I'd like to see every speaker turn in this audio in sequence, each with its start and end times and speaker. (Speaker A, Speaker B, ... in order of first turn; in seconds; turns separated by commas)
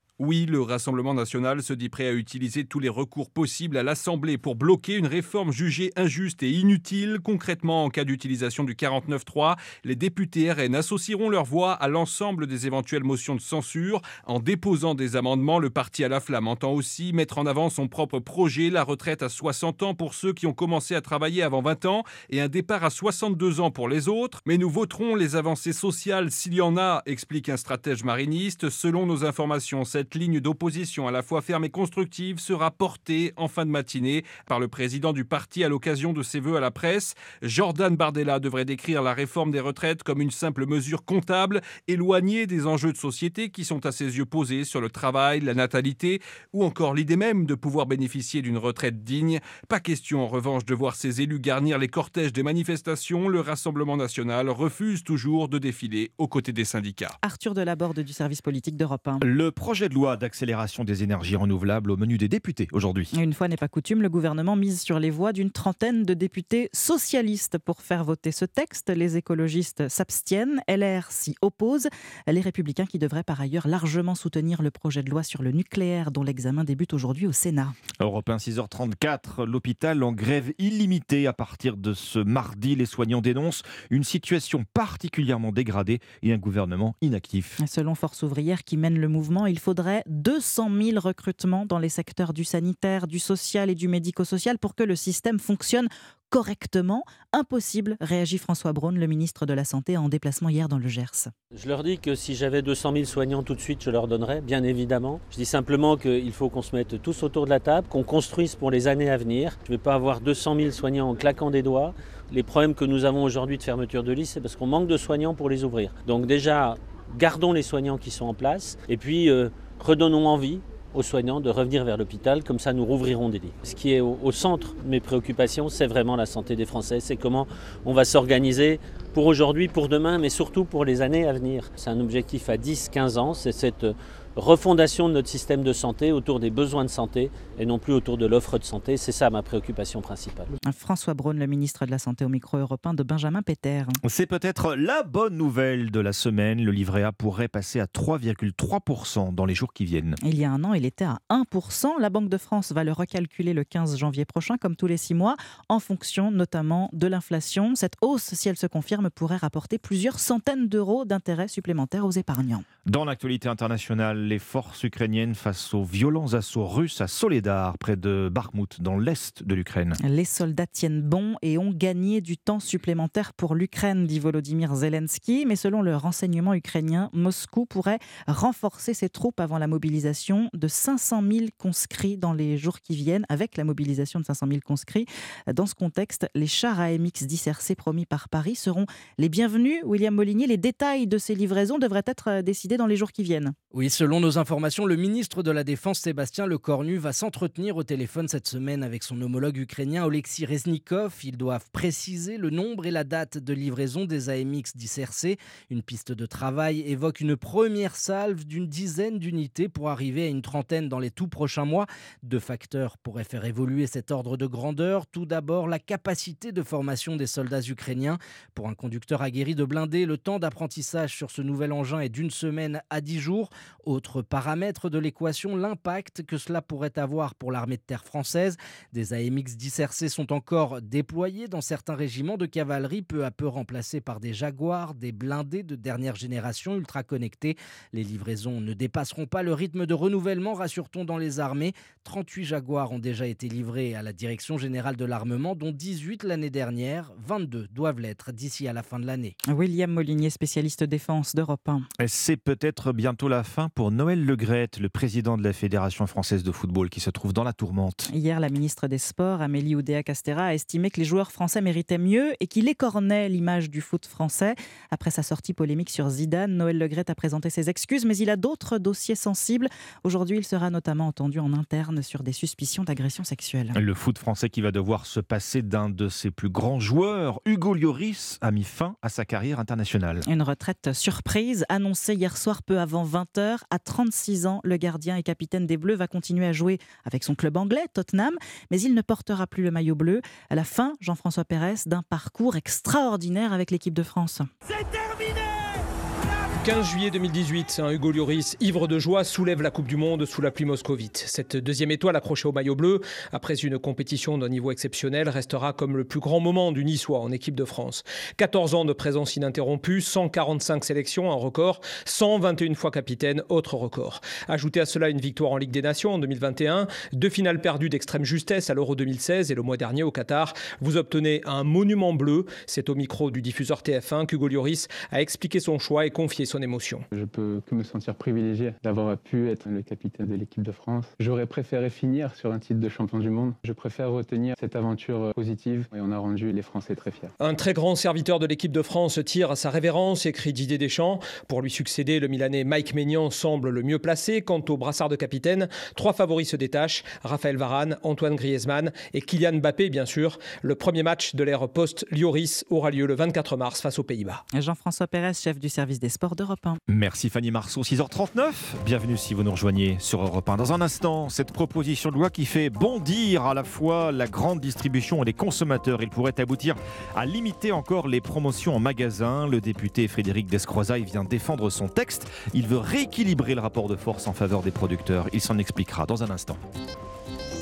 Speaker A: 0.2-57.1, Speaker B: 57.2-59.2, Speaker C: 59.2-63.1, Speaker B: 63.1-77.7, Speaker C: 78.0-87.5, Speaker B: 87.6-101.3, Speaker D: 101.5-140.5, Speaker B: 140.6-144.0, Speaker C: 144.0-150.2, Speaker B: 150.2-162.6, Speaker C: 162.9-169.9, Speaker B: 170.0-193.5, Speaker E: 193.7-249.3, Speaker B: 249.4-251.8, Speaker C: 252.0-258.1, Speaker B: 258.1-273.8, Speaker C: 273.7-280.2, Speaker B: 280.3-294.5, Speaker F: 296.6-327.1, Speaker G: 327.1-337.3, Speaker F: 337.4-354.4, Speaker B: 354.5-356.8, Speaker C: 356.9-376.6